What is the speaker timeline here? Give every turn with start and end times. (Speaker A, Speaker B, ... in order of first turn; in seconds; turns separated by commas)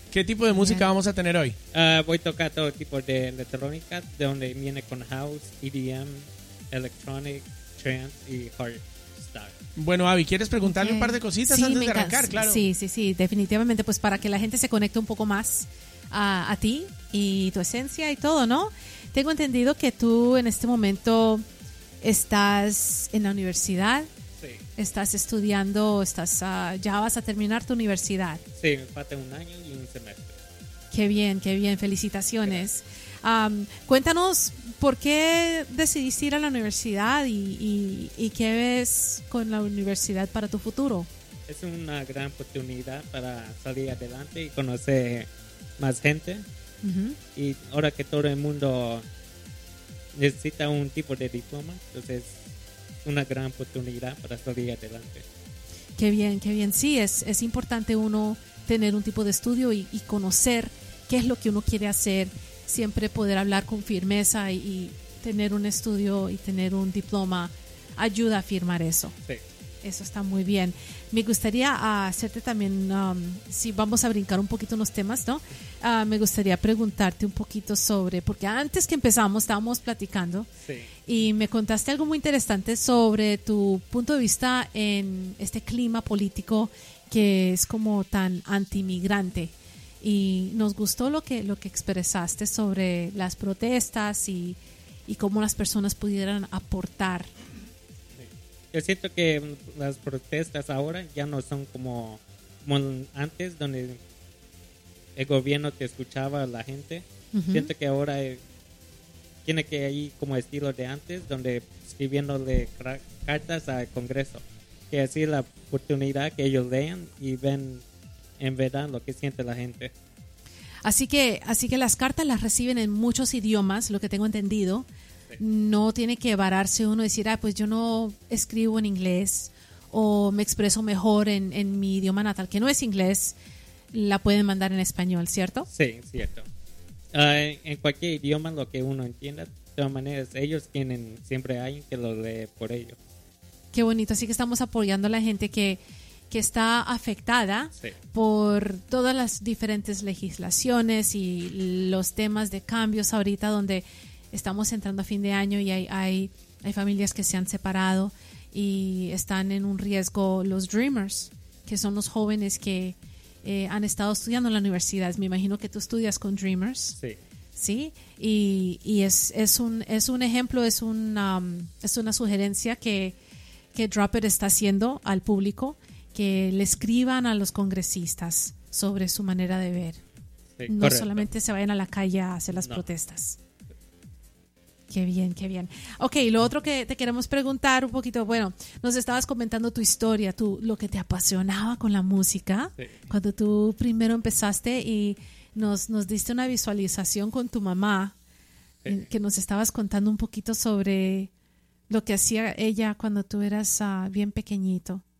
Speaker A: 0.1-1.6, Speaker B: 0.5-0.9, Speaker C: 1.7-9.5, Speaker A: 9.8-12.6, Speaker B: 10.6-21.4, Speaker B: 22.0-24.1, Speaker B: 24.8-28.4, Speaker C: 28.6-30.4, Speaker B: 30.9-41.1, Speaker C: 41.5-46.5, Speaker B: 46.8-47.2, Speaker C: 47.4-49.0, Speaker C: 50.1-52.3, Speaker C: 53.0-55.2, Speaker B: 56.0-69.1, Speaker B: 69.8-80.5, Speaker C: 80.6-80.9, Speaker B: 81.0-97.3, Speaker C: 98.2-104.0, Speaker C: 105.2-108.4, Speaker B: 107.3-107.7, Speaker C: 109.4-117.8, Speaker C: 118.4-119.9, Speaker B: 120.8-124.9, Speaker B: 125.4-133.3, Speaker B: 133.9-135.7, Speaker C: 135.7-136.4, Speaker C: 137.1-143.0, Speaker B: 143.7-166.9, Speaker B: 167.6-173.2, Speaker B: 173.7-180.0, Speaker C: 180.6-181.3, Speaker B: 180.7-183.4, Speaker B: 184.9-198.1, Speaker B: 198.9-201.3, Speaker B: 201.9-205.0